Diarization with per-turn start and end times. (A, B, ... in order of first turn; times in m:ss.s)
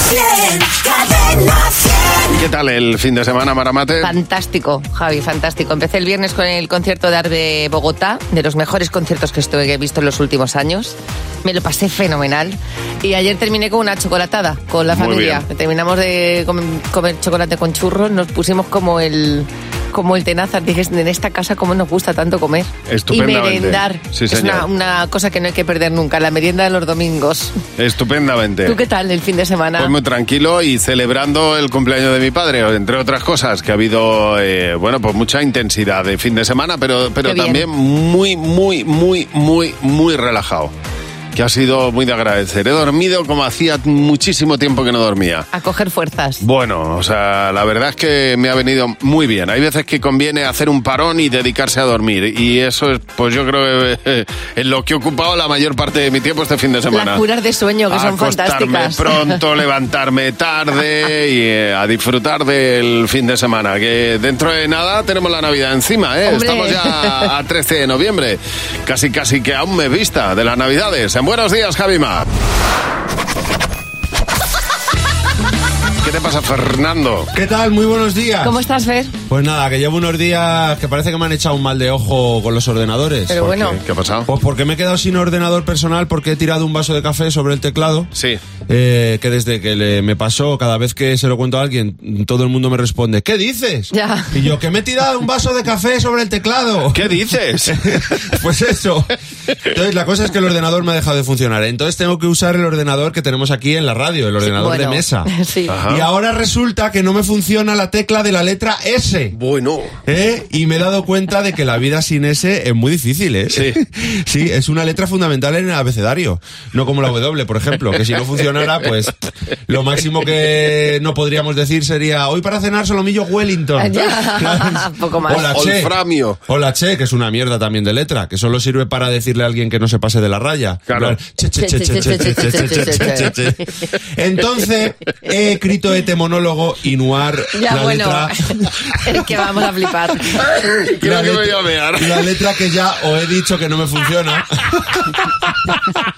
0:02.3-0:04.1 A
0:04.0-0:27.5 B
0:14.9-0:15.4 A
0:22.9-0:24.7 A
0:27.8-0:28.8 A
0:28.6-0:29.9 B
0:29.8-0:40.7 A
0:37.2-0:37.6 B
0:41.3-0:45.4 A
0:45.5-0:46.4 B
0:46.4-0:57.2 A
0:56.9-0:59.4 B
0:57.9-1:12.3 A
1:06.2-1:07.3 B
1:16.0-1:17.3 A
1:17.3-1:18.6 C
1:18.4-1:19.1 B
1:19.3-1:23.7 C
1:23.3-1:23.8 B
1:23.8-1:24.3 A
1:24.3-1:28.1 C
1:28.1-1:28.4 A
1:28.7-1:39.1 C
1:33.9-1:34.3 B
1:36.9-1:37.7 A
1:39.7-1:45.3 C
1:44.4-1:45.8 B
1:45.7-1:46.1 A
1:45.9-1:49.3 C
1:49.4-1:49.9 A
1:50.1-1:59.1 C
1:53.5-1:53.8 A
1:59.7-2:05.9 C
2:03.8-2:05.6 B
2:05.5-2:06.4 A
2:06.5-2:18.7 C
2:10.9-2:11.2 A
2:11.6-2:13.3 B
2:17.5-2:18.3 B
2:19.0-2:20.4 B
2:20.5-2:22.3 A
2:21.0-2:25.1 C